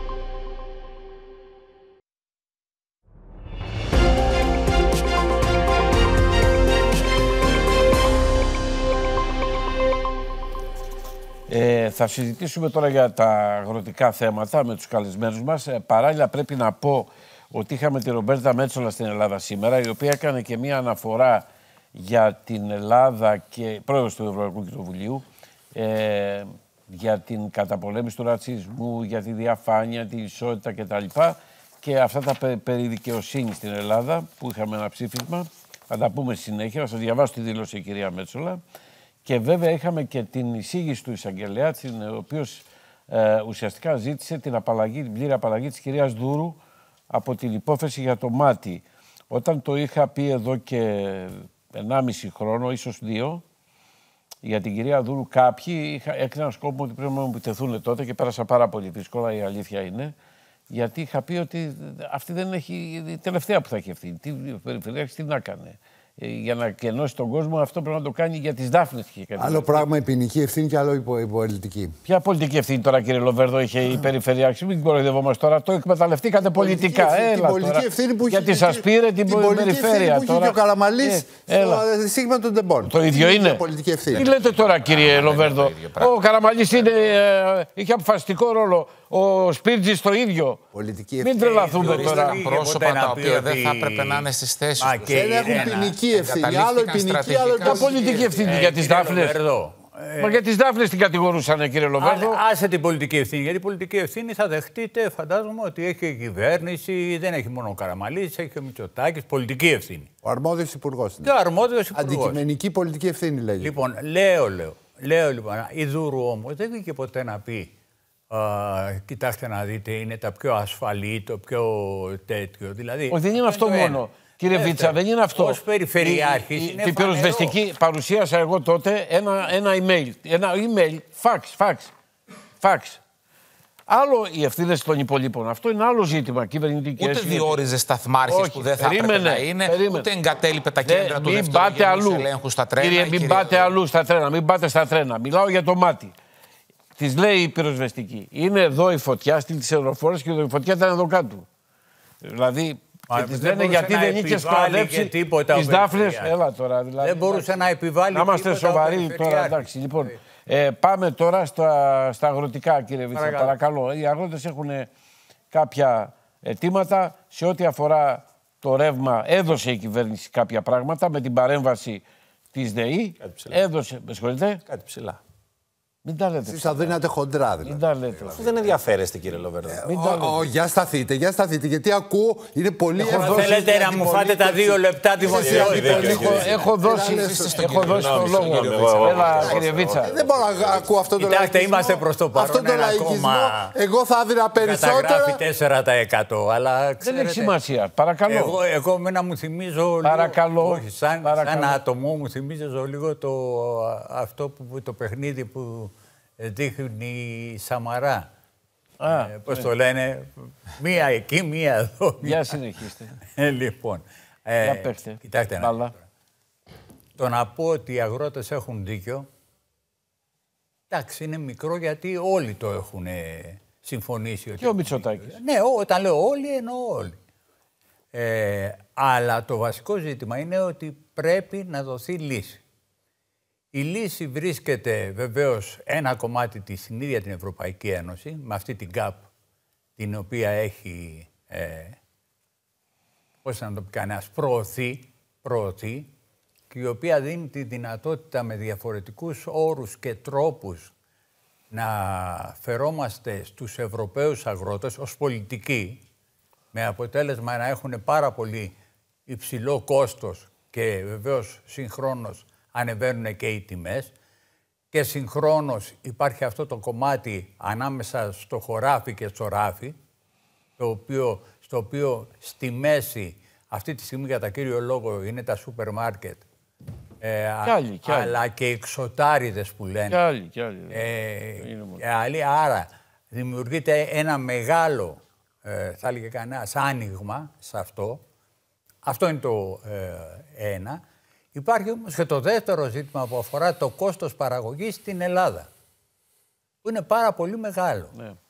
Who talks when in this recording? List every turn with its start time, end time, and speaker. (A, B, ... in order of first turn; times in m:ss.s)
0:11.5-0:38.6 A
0:39.2-0:46.6 A
0:47.1-0:53.4 A
0:54.4-1:00.1 A
1:00.7-1:09.8 A
1:09.4-1:11.9 B
1:12.0-1:21.8 A
1:16.6-1:24.2 B
1:22.8-1:23.6 A
1:24.1-1:26.2 C
1:24.1-1:30.6 A
1:26.7-1:27.1 C
1:30.7-1:32.1 B
1:31.2-1:32.4 A
1:31.4-1:34.3 D
1:31.9-1:38.4 C
1:34.8-1:36.0 D
1:35.1-1:38.2 B
1:37.6-1:39.4 A
1:37.7-1:40.4 D
1:40.2-1:42.4 A
1:42.0-1:50.1 D
1:50.2-1:51.3 B
1:51.2-1:52.4 D
1:51.9-1:53.7 B
1:53.6-1:57.7 D
1:58.3-2:07.6 D
2:03.1-2:11.9 A
2:12.6-2:13.0 A
2:13.9-2:17.6 A
2:17.0-2:23.7 C
2:18.3-2:20.1 A
2:20.8-2:26.1 A
2:27.0-2:31.4 A
2:32.2-2:44.9 A
2:33.1-2:36.4 D
2:37.0-2:40.2 D
2:43.1-2:43.5 D
2:45.5-2:52.0 A
2:52.5-2:54.6 A
2:53.2-2:53.6 E
2:54.6-2:55.2 E
2:56.0-2:57.0 A
2:56.4-2:58.7 B
2:57.6-2:58.7 A
2:58.3-2:59.8 E
2:59.7-3:04.6 B
2:59.8-3:00.4 A
3:03.0-3:03.5 A
3:03.0-3:06.5 D
3:03.9-3:04.3 E
3:05.2-3:08.3 B
3:05.2-3:06.7 E
3:05.7-3:10.1 A
3:07.0-3:09.5 C
3:07.7-3:11.0 E
3:09.2-3:15.4 B
3:11.2-3:13.7 D
3:14.6-3:17.6 D
3:17.0-3:18.6 A
3:18.3-3:28.3 D
3:20.0-3:21.8 A
3:29.0-3:29.7 A
3:29.2-3:32.5 D
3:32.2-3:33.2 A
3:33.2-3:36.0 D
3:34.6-3:35.9 A
3:37.2-3:39.3 D
3:40.9-3:47.2 D
3:44.6-3:45.4 A
3:48.1-3:52.6 D
3:53.7-3:59.3 D
4:00.0-4:02.0 D
4:03.4-4:06.1 D
4:06.7-4:10.9 D
4:11.7-4:16.0 D
4:16.7-4:18.7 D
4:19.3-4:24.1 D
4:24.9-4:30.0 D
4:30.8-4:36.4 D
4:37.2-4:40.2 D
4:37.6-4:38.4 A
4:40.1-4:42.0 A
4:40.9-4:48.2 D
4:49.0-4:51.0 D
4:51.5-4:55.7 D
4:56.8-4:58.1 D